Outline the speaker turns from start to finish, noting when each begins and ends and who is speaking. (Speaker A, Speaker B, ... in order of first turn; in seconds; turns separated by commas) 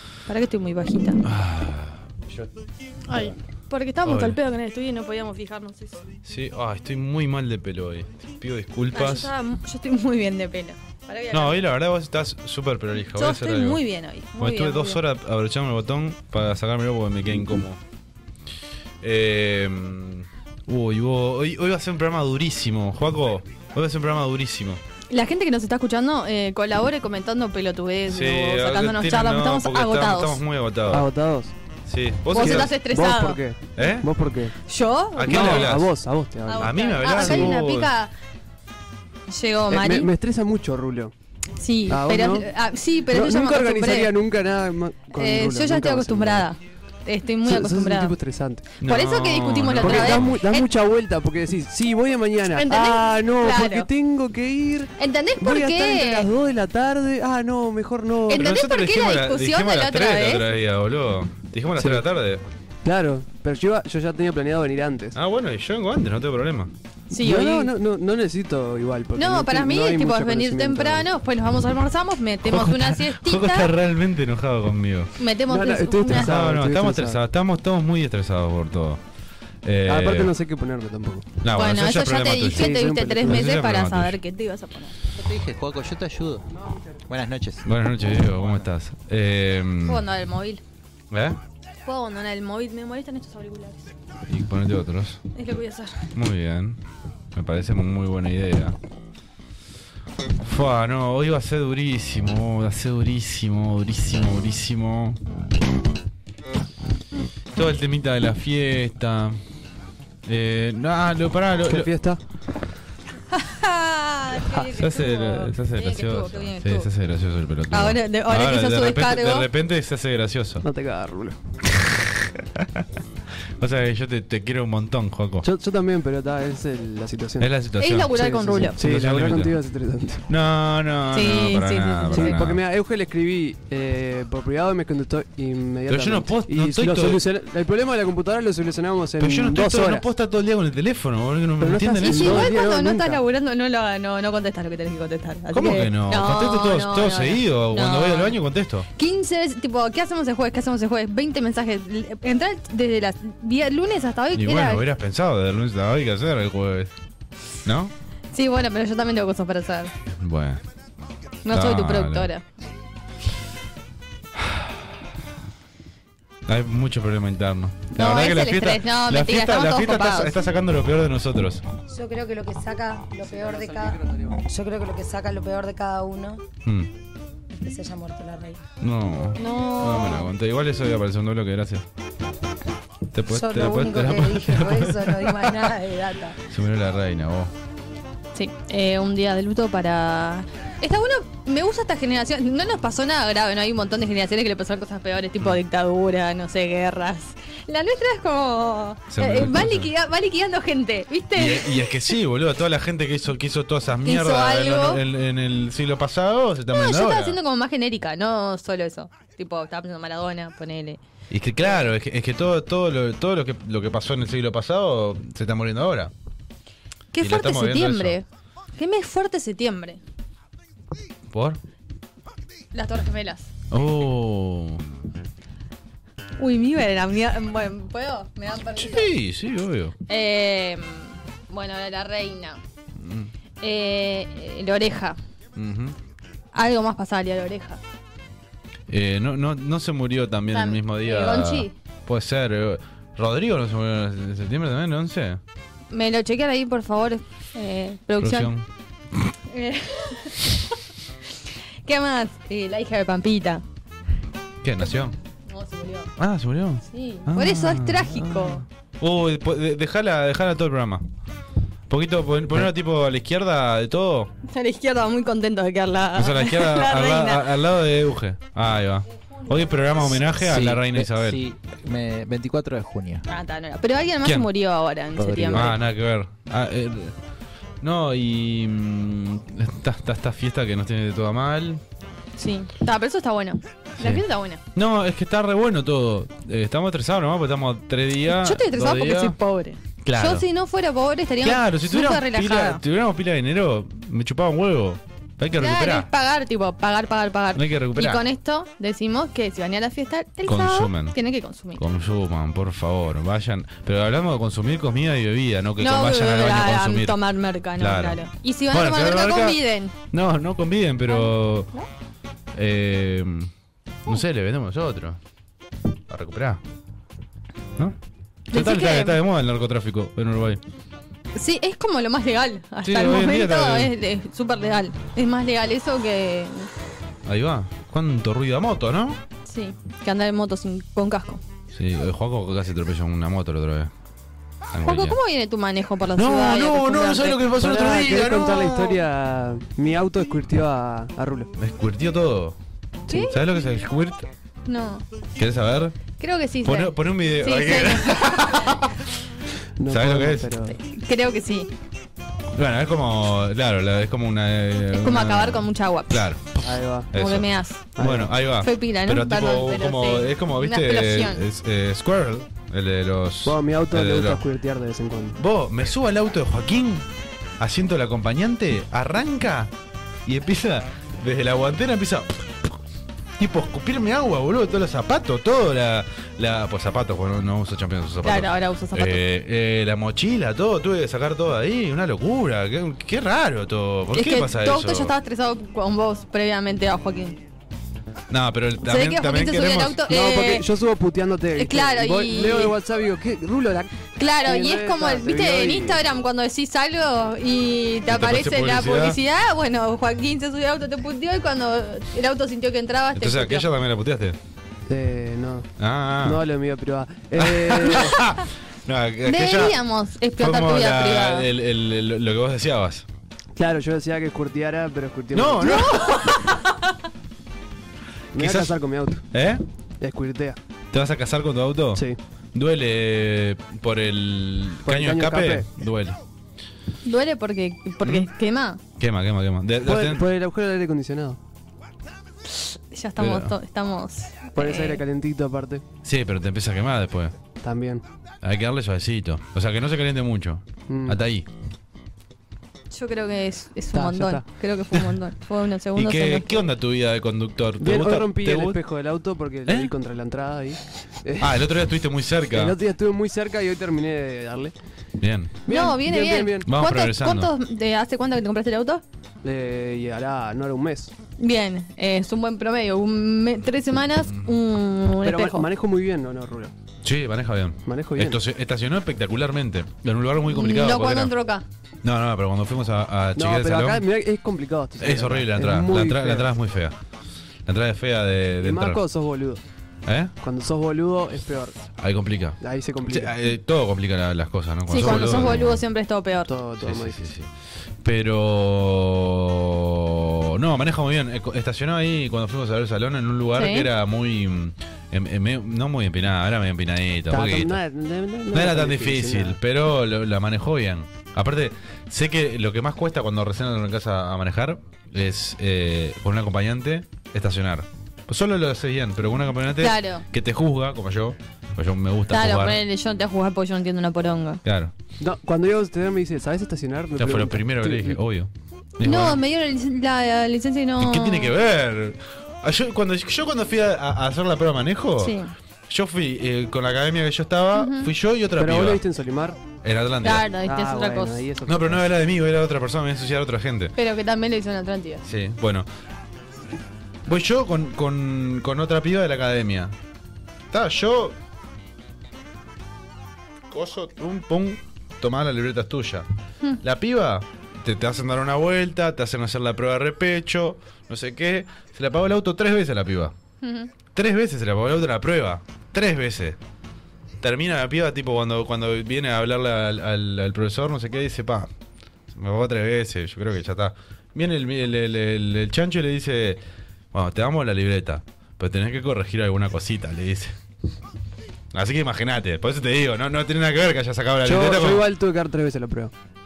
Speaker A: 0.3-1.2, Speaker B: 1.2-2.5, Speaker A: 3.1-6.0, Speaker B: 4.0-4.4, Speaker B: 6.2-9.3, Speaker A: 8.9-11.6, Speaker B: 11.3-13.8, Speaker A: 13.2-15.0, Speaker B: 14.4-17.8, Speaker B: 19.0-24.8, Speaker A: 25.1-30.4, Speaker B: 28.1-31.1, Speaker C: 30.9-31.5, Speaker B: 31.9-32.7, Speaker A: 32.3-33.4, Speaker C: 32.4-34.5, Speaker B: 33.8-34.1, Speaker A: 34.7-35.7, Speaker B: 35.2-35.9, Speaker C: 35.2-37.6, Speaker A: 36.5-38.1, Speaker B: 36.6-37.9, Speaker A: 39.3-40.1, Speaker C: 39.7-41.1, Speaker A: 41.6-44.1, Speaker C: 41.9-42.5, Speaker C: 43.1-46.5, Speaker A: 45.1-48.1, Speaker C: 47.5-48.6, Speaker B: 48.8-50.4, Speaker A: 48.8-50.7, Speaker C: 49.8-58.4, Speaker A: 52.5-53.9, Speaker A: 55.0-56.3, Speaker A: 58.3-60.4, Speaker B: 58.3-62.4, Speaker C: 61.8-62.0, Speaker C: 62.8-65.2, Speaker B: 65.1-66.7, Speaker A: 67.1-67.7, Speaker C: 67.1-71.0, Speaker A: 69.2-73.7, Speaker B: 72.5-75.1, Speaker A: 75.2-76.3, Speaker C: 75.5-77.2, Speaker B: 76.0-79.0, Speaker B: 79.6-80.3, Speaker C: 79.9-81.3, Speaker B: 81.4-84.1, Speaker A: 81.5-84.9, Speaker C: 82.5-83.5, Speaker D: 85.1-86.5, Speaker D: 87.1-87.6, Speaker B: 87.6-90.0, Speaker A: 89.9-90.6, Speaker B: 91.1-91.4, Speaker A: 91.8-93.9, Speaker B: 94.3-95.2, Speaker A: 95.3-96.1, Speaker B: 96.1-96.8, Speaker B: 97.3-98.8, Speaker B: 100.4-105.2, Speaker B: 107.5-109.4, Speaker B: 110.2-111.9, Speaker C: 111.7-112.2, Speaker A: 113.3-116.9, Speaker B: 114.8-120.6, Speaker A: 117.7-119.5, Speaker C: 120.6-121.4, Speaker B: 121.7-122.7, Speaker B: 123.6-125.5, Speaker C: 125.4-127.5, Speaker B: 127.4-128.1, Speaker A: 127.8-128.8, Speaker C: 128.1-130.2, Speaker B: 128.8-129.6, Speaker B: 130.3-132.6, Speaker A: 131.1-132.4, Speaker C: 132.1-140.1, Speaker B: 135.9-137.2, Speaker B: 139.2-142.5, Speaker C: 141.6-143.2, Speaker A: 142.0-148.3, Speaker B: 145.5-148.9, Speaker A: 149.0-154.8, Speaker B: 154.3-156.9, Speaker B: 157.6-157.9, Speaker A: 158.3-159.9, Speaker B: 160.2-160.6, Speaker A: 161.4-162.4, Speaker B: 161.5-162.3, Speaker B: 164.3-164.9, Speaker B: 166.5-171.6, Speaker A: 167.9-170.3, Speaker E: 171.9-176.4, Speaker E: 177.6-178.6, Speaker B: 178.8-181.8, Speaker A: 179.4-180.3, Speaker B: 183.1-185.5, Speaker E: 183.3-186.4, Speaker B: 186.5-187.5, Speaker A: 188.3-202.1, Speaker B: 199.1-199.9, Speaker B: 201.3-207.4, Speaker A: 204.0-205.0, Speaker A: 206.7-211.0, Speaker B: 211.3-216.1, Speaker A: 211.6-211.9, Speaker A: 217.1-218.2, Speaker B: 217.2-218.2, Speaker A: 218.8-220.0, Speaker B: 221.3-221.6, Speaker A: 222.7-223.5, Speaker B: 223.7-224.8, Speaker A: 226.4-229.1, Speaker B: 228.7-229.9, Speaker A: 230.1-232.6, Speaker B: 233.0-233.3, Speaker A: 233.6-235.2, Speaker B: 235.6-235.9, Speaker A: 236.5-237.8, Speaker B: 238.9-245.4, Speaker A: 240.5-241.7, Speaker A: 245.9-248.5, Speaker B: 248.2-248.7, Speaker A: 249.5-250.5, Speaker A: 251.8-253.6, Speaker B: 254.6-255.1, Speaker A: 255.5-256.1, Speaker B: 256.2-261.0, Speaker A: 256.9-258.6, Speaker B: 261.9-264.3, Speaker A: 264.4-267.5, Speaker B: 266.1-271.4, Speaker D: 270.3-273.2, Speaker A: 273.3-275.7, Speaker D: 275.2-275.7, Speaker B: 275.5-277.1, Speaker B: 277.8-281.8, Speaker A: 282.4-284.6, Speaker B: 284.0-289.4, Speaker A: 288.2-292.8, Speaker B: 290.0-290.4, Speaker B: 291.4-296.1, Speaker A: 295.6-301.8, Speaker B: 297.5-298.2, Speaker B: 300.5-301.2, Speaker B: 301.8-307.2, Speaker A: 305.8-309.9, Speaker B: 307.8-311.7, Speaker A: 311.1-311.9, Speaker B: 312.5-313.5, Speaker B: 314.1-315.2, Speaker B: 316.1-316.6, Speaker A: 318.5-319.2, Speaker B: 318.5-320.6, Speaker A: 321.3-326.7, Speaker B: 322.8-323.9, Speaker B: 327.2-329.2, Speaker A: 329.4-331.4, Speaker B: 331.7-333.9, Speaker B: 334.7-335.2, Speaker A: 334.8-337.4, Speaker B: 336.2-339.0, Speaker C: 337.6-341.5, Speaker B: 341.6-342.6, Speaker A: 343.1-343.4, Speaker B: 343.2-344.3, Speaker A: 344.6-345.0, Speaker B: 345.4-345.9, Speaker A: 346.2-348.9, Speaker B: 346.6-348.8, Speaker C: 349.8-350.8, Speaker B: 349.9-350.6, Speaker A: 350.7-351.7, Speaker B: 352.6-364.4, Speaker A: 354.9-356.2, Speaker C: 356.6-357.1, Speaker A: 357.1-357.9, Speaker C: 358.0-358.3, Speaker A: 358.6-361.4, Speaker C: 363.4-365.4, Speaker B: 365.4-367.0, Speaker B: 367.6-369.7, Speaker B: 370.2-372.7, Speaker B: 373.4-385.1, Speaker A: 378.2-379.2, Speaker A: 384.1-387.4, Speaker B: 388.3-390.0, Speaker A: 388.8-390.6, Speaker C: 390.1-396.0, Speaker A: 391.6-392.7, Speaker A: 394.1-403.7, Speaker B: 398.1-399.2, Speaker B: 403.1-404.4, Speaker C: 404.9-405.7, Speaker B: 405.8-406.4, Speaker C: 406.2-408.2, Speaker B: 407.4-409.8, Speaker A: 409.2-411.5, Speaker B: 410.4-413.1, Speaker C: 413.6-415.9, Speaker B: 415.3-416.3, Speaker A: 415.6-416.6, Speaker B: 418.3-418.8, Speaker C: 418.3-419.2, Speaker B: 419.3-419.6, Speaker C: 420.0-420.6, Speaker B: 420.9-426.2, Speaker C: 424.9-425.7, Speaker A: 427.0-428.8, Speaker B: 428.0-428.3, Speaker B: 429.0-430.2, Speaker C: 429.8-431.4, Speaker A: 432.5-435.0, Speaker B: 433.2-433.5, Speaker C: 434.6-435.8, Speaker B: 436.0-437.3, Speaker C: 437.6-438.0, Speaker B: 438.4-441.5, Speaker C: 440.9-441.2, Speaker A: 442.9-446.7, Speaker C: 443.9-444.4, Speaker B: 445.9-448.8, Speaker C: 447.8-451.6, Speaker B: 449.6-449.9, Speaker B: 451.4-452.8, Speaker C: 452.5-454.7, Speaker B: 455.2-455.5, Speaker C: 455.6-456.7, Speaker A: 455.7-459.0, Speaker B: 456.7-457.5, Speaker C: 459.4-461.1, Speaker A: 461.4-465.6, Speaker C: 465.2-466.7, Speaker B: 467.0-471.3, Speaker C: 467.9-468.4, Speaker A: 470.5-471.6, Speaker B: 472.0-474.0, Speaker C: 473.3-476.4, Speaker B: 475.0-476.9, Speaker B: 477.6-479.0, Speaker C: 478.6-479.6, Speaker B: 480.1-480.3, Speaker C: 480.4-481.8, Speaker B: 482.0-485.8, Speaker C: 482.6-483.3, Speaker A: 484.9-486.5, Speaker C: 484.9-485.6, Speaker C: 486.5-487.2, Speaker B: 486.8-487.5, Speaker B: 488.0-497.8, Speaker A: 493.6-493.9, Speaker C: 497.3-499.6, Speaker B: 498.5-512.8, Speaker A: 509.8-510.2, Speaker A: 512.3-514.6, Speaker B: 514.6-514.9, Speaker C: 515.2-518.2, Speaker B: 517.1-519.4, Speaker A: 519.0-521.5, Speaker B: 521.0-525.4, Speaker A: 525.2-525.5, Speaker B: 525.9-529.0, Speaker A: 527.7-528.1, Speaker C: 528.6-529.6, Speaker B: 529.8-530.5, Speaker A: 530.2-531.4, Speaker C: 530.6-532.0, Speaker B: 531.6-533.9, Speaker A: 534.0-535.2, Speaker B: 535.2-535.9, Speaker B: 537.3-539.9, Speaker B: 540.7-541.4, Speaker B: 543.7-546.2, Speaker B: 546.8-553.3, Speaker A: 553.6-553.9, Speaker B: 554.1-556.6, Speaker B: 557.4-561.7, Speaker B: 562.3-566.6, Speaker B: 567.1-570.5, Speaker B: 571.7-575.1, Speaker C: 574.4-576.1